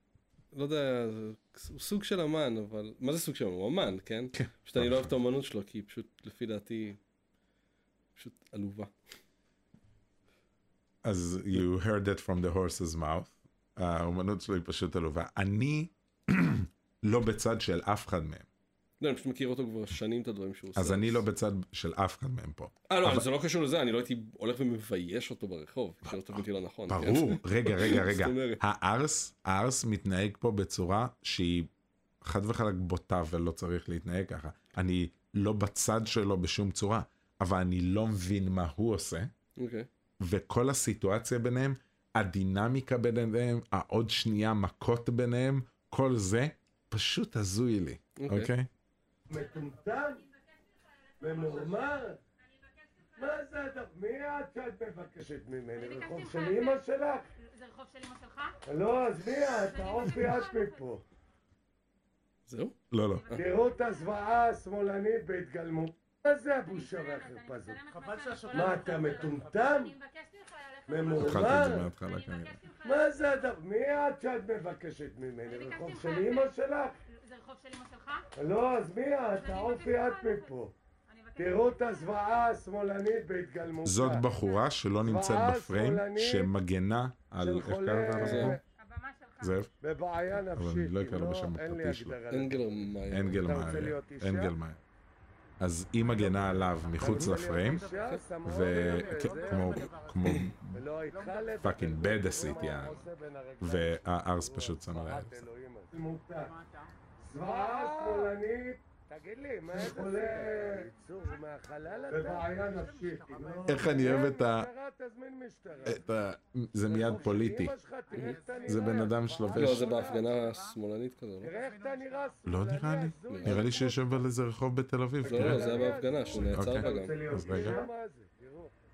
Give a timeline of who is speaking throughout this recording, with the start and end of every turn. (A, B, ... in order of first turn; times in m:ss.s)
0:00.5-0:07.0 A
0:04.4-0:05.1 B
0:08.2-0:08.9 A
0:11.0-0:18.5 B
0:19.0-0:21.2 A
0:20.8-0:23.3 B
0:22.9-0:28.6 A
0:26.1-0:31.7 B
0:32.2-0:39.3 B
0:39.6-0:39.9 A
0:40.2-0:48.7 B
0:48.2-0:48.5 A
0:49.3-0:50.2 C
0:51.1-0:51.8 D
0:51.2-0:52.2 C
0:52.6-0:53.1 D
0:53.2-0:57.3 C
0:55.8-0:56.8 D
0:57.4-0:58.6 D
0:58.7-1:01.0 C
0:59.4-1:00.8 D
1:02.5-1:02.8 A
1:02.9-1:03.4 B
1:03.3-1:07.8 C
1:06.7-1:13.4 D
1:08.5-1:09.9 C
1:10.9-1:11.9 C
1:11.2-1:12.6 B
1:12.8-1:17.0 C
1:15.5-1:16.5 D
1:17.1-1:18.2 D
1:18.4-1:20.7 C
1:19.3-1:20.5 D
1:21.1-1:22.1 D
1:21.4-1:24.3 C
1:23.8-1:28.6 B
1:25.0-1:26.5 C
1:27.4-1:28.6 C
1:28.2-1:28.6 A
1:28.8-1:29.6 D
1:29.4-1:29.7 B
1:29.8-1:32.7 C
1:30.5-1:32.2 B
1:32.3-1:33.5 A
1:33.1-1:34.8 B
1:33.3-1:34.5 C
1:35.6-1:37.9 B
1:37.0-1:39.9 C
1:38.4-1:40.8 B
1:40.7-1:46.6 C
1:41.6-1:43.0 B
1:43.6-1:45.5 B
1:47.2-1:56.0 C
1:53.7-1:54.7 B
1:55.8-1:57.7 B
1:56.9-2:00.3 C
1:58.7-2:00.1 B
1:59.5-2:01.5 A
2:01.4-2:04.1 C
2:02.4-2:05.9 B
2:03.3-2:03.6 A
2:05.2-2:07.2 A
2:05.2-2:08.7 C
2:06.4-2:07.8 B